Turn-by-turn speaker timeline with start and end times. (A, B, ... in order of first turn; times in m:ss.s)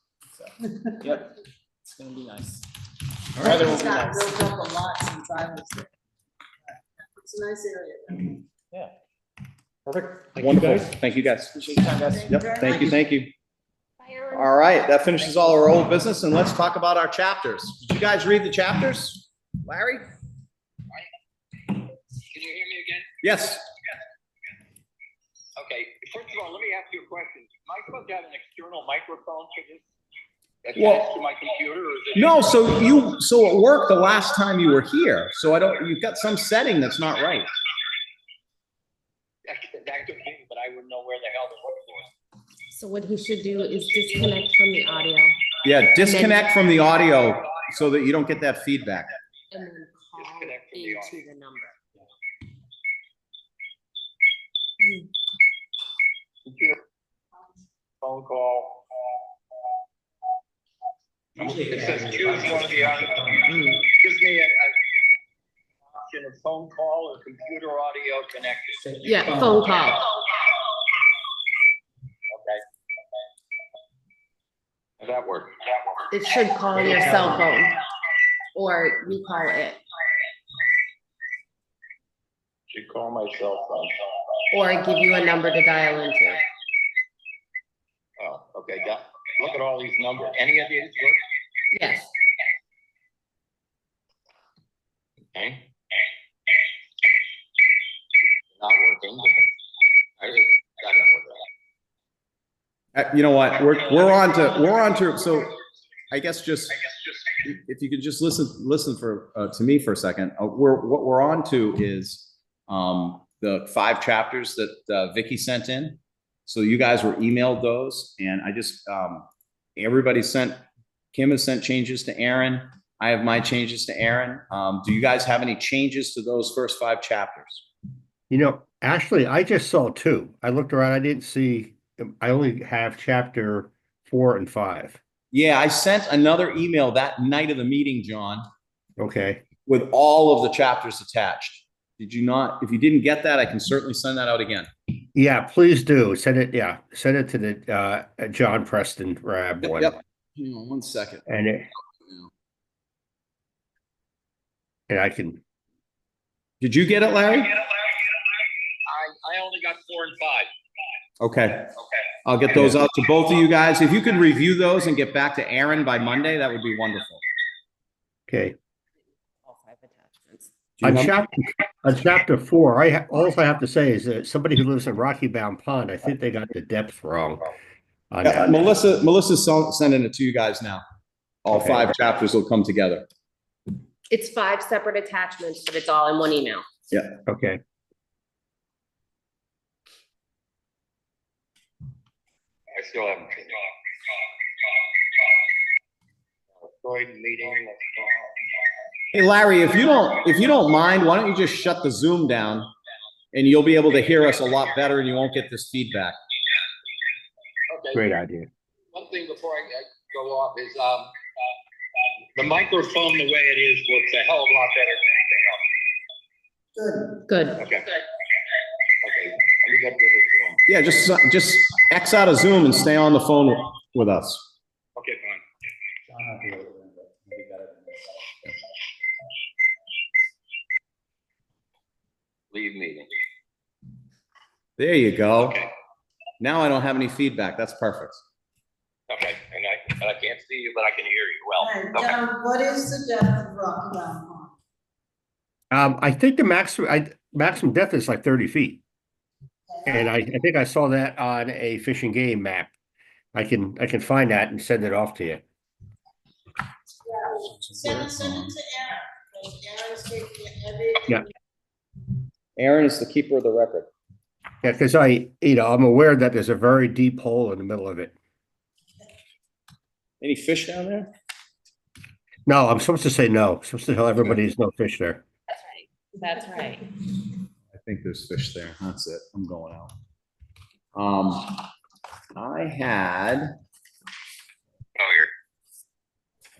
0:00.3-0:01.3 A
0:01.9-0:02.6 A
0:03.4-0:04.5 A
0:03.4-0:05.9 B
0:06.7-0:08.4 B
0:09.9-0:10.9 A
0:10.4-0:11.7 C
0:11.5-0:13.0 A
0:11.7-0:13.0 B
0:12.3-0:13.3 C
0:14.0-0:15.6 D
0:14.3-0:20.1 C
0:22.3-0:23.1 E
0:23.2-0:23.6 C
0:25.6-0:29.9 E
0:30.6-0:32.8 E
0:30.8-0:31.0 C
0:32.2-0:37.5 C
0:39.5-0:42.1 E
0:42.7-0:45.4 D
0:45.6-0:49.1 C
0:46.0-0:46.6 D
0:49.5-0:51.8 D
0:50.2-0:51.2 E
0:54.8-0:55.1 D
0:56.5-0:56.8 E
0:58.0-0:58.8 E
1:01.4-1:03.4 A
1:01.4-1:04.7 E
1:03.5-1:03.8 D
1:05.9-1:08.8 E
1:08.9-1:09.6 A
1:09.0-1:10.0 D
1:12.3-1:12.6 E
1:15.0-1:15.6 E
1:16.1-1:17.8 D
1:18.5-1:19.8 D
1:22.7-1:23.9 E
1:24.5-1:26.4 D
1:28.2-1:31.2 E
1:31.7-1:32.1 D
1:35.4-1:35.7 E
1:38.6-1:39.4 E
1:40.2-1:41.4 E
1:43.0-1:45.5 C
1:46.1-1:46.8 C
1:47.4-2:00.6 C
2:01.1-2:07.7 C
2:08.3-2:15.0 F
2:15.3-2:18.5 C
2:19.0-2:19.4 F
2:19.7-2:24.7 C
2:25.2-2:30.0 F
2:29.6-2:31.2 C
2:31.3-2:31.7 F
2:34.9-2:35.4 F
2:36.6-2:37.5 C
2:38.9-2:40.5 E
2:41.2-2:47.2 C
2:48.3-2:48.6 F
2:49.4-2:50.5 D
2:50.8-2:51.1 C
2:50.8-2:57.5 F
2:58.1-2:58.7 F
2:58.2-3:00.8 C
3:01.4-3:03.1 C
3:01.5-3:01.9 F
3:04.1-3:06.6 D
3:06.9-3:07.2 C
3:07.3-3:07.6 F
3:12.7-3:13.6 E
3:16.6-3:18.4 E
3:19.1-3:22.7 C
3:23.3-3:26.2 C
3:27.7-3:28.0 E
3:27.9-3:28.5 F
3:28.9-3:31.1 E
3:32.4-3:35.6 E
3:36.8-3:37.1 B
3:37.3-3:37.6 D
3:37.6-3:37.9 E
3:39.0-3:40.6 E
3:40.7-3:44.4 C
3:45.0-3:45.4 E
3:46.1-3:48.3 A
3:52.5-3:53.1 E
3:54.8-3:55.6 C
3:56.4-3:58.2 C
3:59.1-4:02.2 E
4:01.6-4:04.5 B
4:05.7-4:08.8 F
4:09.7-4:10.0 B
4:09.9-4:12.7 F
4:13.3-4:15.4 F
4:17.0-4:21.3 B
4:22.6-4:23.9 C
4:24.6-4:28.2 F
4:30.2-4:31.1 C
4:32.5-4:35.2 F
4:35.5-4:36.8 D
4:37.7-4:39.9 C
4:41.0-4:41.7 C
4:42.4-4:43.5 C
4:45.0-4:45.3 E